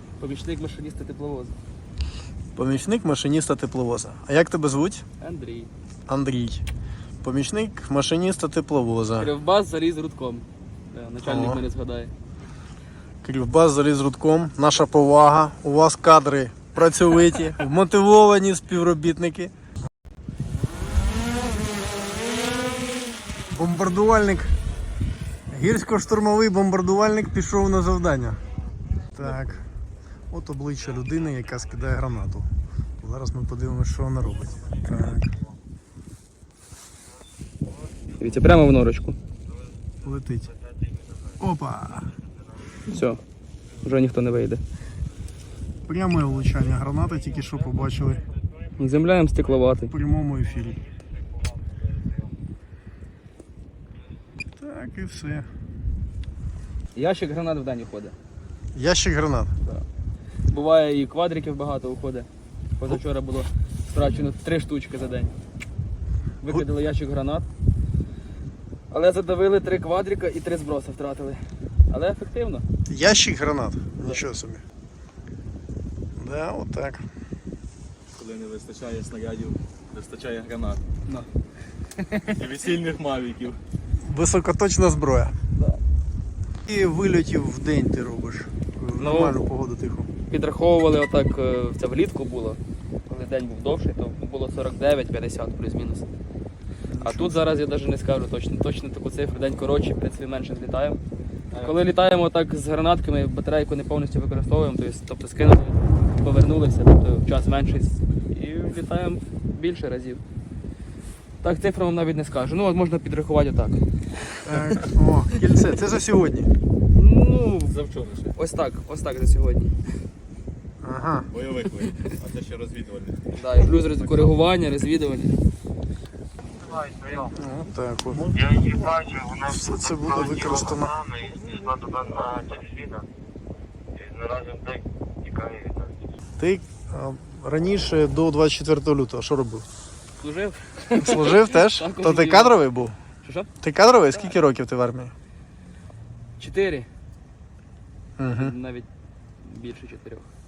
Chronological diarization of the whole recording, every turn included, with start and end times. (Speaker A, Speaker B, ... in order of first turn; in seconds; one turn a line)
Speaker A: 0.2-1.6
Speaker B: 2.5-5.0
Speaker A: 5.2-5.7
Speaker B: 6.1-6.6
Speaker B: 7.2-9.3
Speaker A: 9.2-12.1
Speaker B: 11.2-11.6
Speaker B: 13.2-19.5
Speaker B: 23.5-24.5
Speaker B: 25.5-28.4
Speaker B: 29.1-29.6
Speaker B: 30.3-32.5
Speaker B: 33.0-35.3
Speaker A: 38.2-39.2
Speaker B: 40.0-40.5
Speaker B: 41.4-42.1
Speaker A: 42.9-43.2
Speaker A: 43.8-44.6
Speaker B: 45.9-48.2
Speaker A: 48.8-49.9
Speaker B: 49.9-50.8
Speaker B: 54.6-55.5
Speaker A: 56.9-58.1
Speaker B: 58.7-59.5
Speaker A: 60.5-65.3
Speaker A: 66.4-67.5
Speaker A: 68.9-72.7
Speaker B: 72.8-74.6
Speaker B: 76.2-77.0
Speaker C: 78.1-80.8
Speaker A: 82.0-82.4
Speaker C: 82.3-83.6
Speaker B: 84.0-85.3
Speaker B: 86.7-90.1
Speaker A: 89.0-89.4
Speaker A: 90.3-96.1
Speaker B: 96.9-97.4
Speaker A: 97.0-101.0
Speaker C: 101.5-101.9
Speaker A: 101.6-110.2
Speaker A: 111.4-114.8
Speaker B: 114.4-116.5
Speaker A: 116.9-117.7
Speaker C: 117.7-118.3
Speaker A: 118.3-119.7
Speaker B: 120.8-121.3
Speaker C: 121.3-124.3
Speaker A: 123.3-125.4
Speaker C: 126.7-127.0
Speaker B: 127.2-128.7
Speaker D: 129.0-129.3
Speaker B: 129.3-131.1
Speaker D: 131.8-133.0
Speaker D: 134.1-135.8
Speaker B: 136.4-139.7
Speaker A: 140.2-142.6
Speaker B: 141.0-143.0
Speaker A: 143.2-143.5
Speaker B: 143.6-145.1
Speaker A: 146.4-146.9
Speaker B: 148.2-148.5
Speaker A: 148.3-148.9
Speaker A: 149.4-150.3